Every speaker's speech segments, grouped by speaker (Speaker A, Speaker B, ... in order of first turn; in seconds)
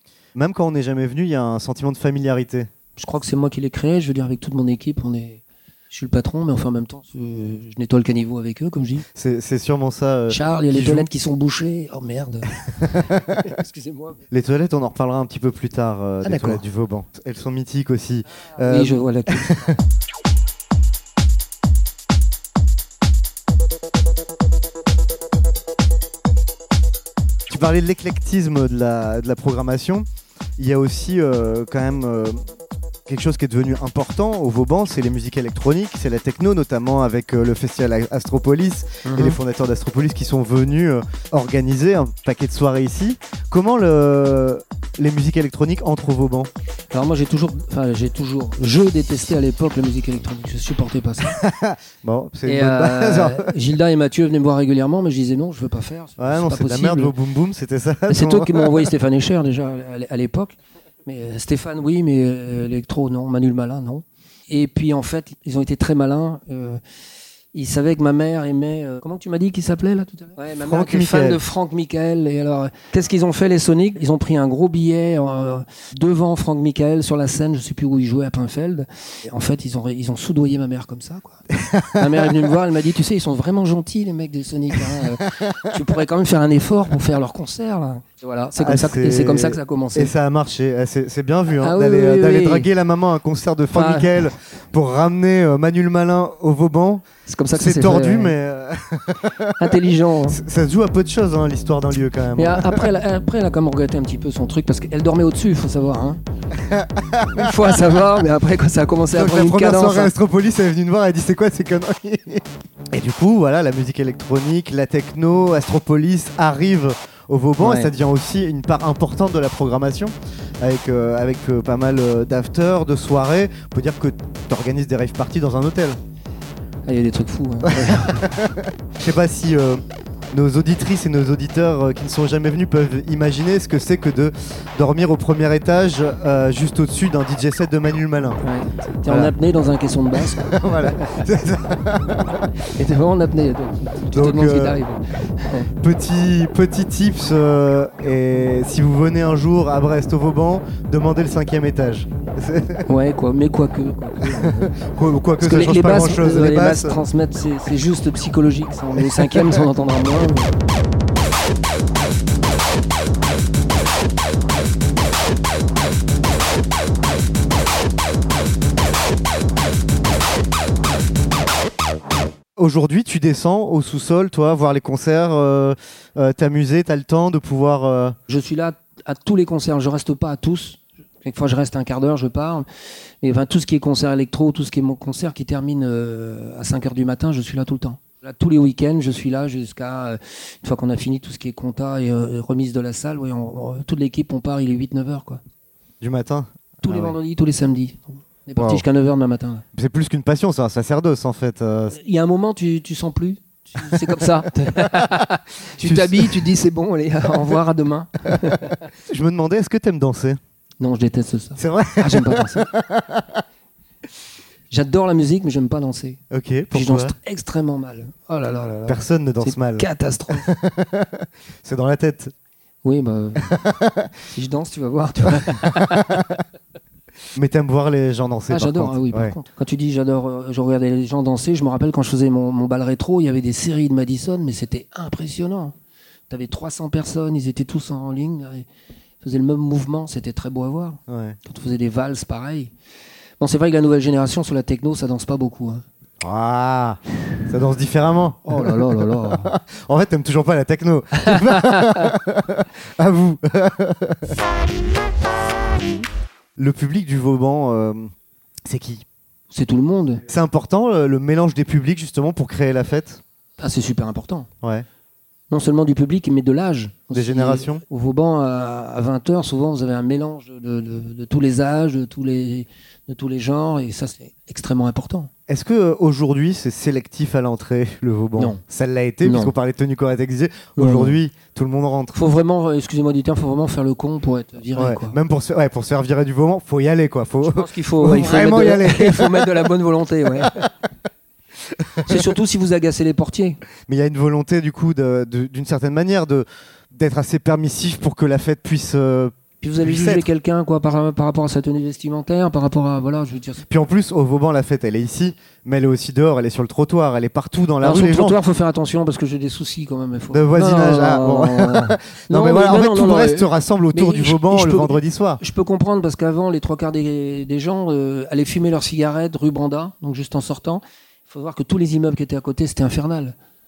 Speaker A: 0.3-2.7, 9.2-11.1, 12.8-13.3, 14.3-19.8, 27.5-32.4, 33.1-46.5, 51.2-53.5, 56.2-58.8, 70.5-71.4, 81.6-82.3, 85.3-85.7, 88.6-99.5, 100.3-102.9, 106.6-107.8, 109.1-126.0, 127.7-138.4, 139.1-139.3, 140.2-142.5, 144.1-144.8, 145.8-152.8, 154.3-157.0, 159.2-159.6, 172.6-178.2, 196.0-197.2, 198.6-198.8, 199.8-202.0, 203.8-204.1, 205.8-206.5, 208.3-210.4, 211.6-213.2, 216.3-217.2, 218.9-222.3, 223.4-224.1, 225.6-226.4, 227.3-229.3, 241.1-241.4, 246.2-254.4, 256.6-258.1, 258.7-259.1, 260.3-263.2, 264.6-264.9, 267.1-267.8, 275.5-282.2, 284.8-289.6, 292.0-292.2, 293.9-300.3, 303.7-308.4, 310.3-315.4
Speaker B: 3.0-9.1, 10.3-12.6, 13.3-14.2, 16.2-16.6, 18.6-19.6, 39.0-39.4, 46.9-51.4, 52.5-57.1, 58.1-66.8, 67.5-81.4, 82.0-90.1, 91.6-92.7, 93.7-94.1, 97.3-98.3, 99.6-100.4, 102.4-106.2, 107.3-110.1, 117.6-117.9, 126.9-128.3, 138.4-141.2, 142.8-145.7, 152.9-154.8, 155.4-160.6, 178.3-182.7, 183.2-195.4, 196.8-199.7, 201.9-208.8, 210.8-212.7, 214.7-216.2, 216.7-220.5, 222.8-223.5, 224.3-226.2, 228.5-235.8, 236.3-238.7, 239.2-242.7, 243.4-245.8, 248.4-249.5, 251.2-252.1, 259.5-260.2, 263.6-264.5, 265.5-275.3, 279.2-279.6, 280.8-281.2, 282.1-285.2, 287.4-290.6, 292.1-293.6, 299.6-303.7, 307.8-323.4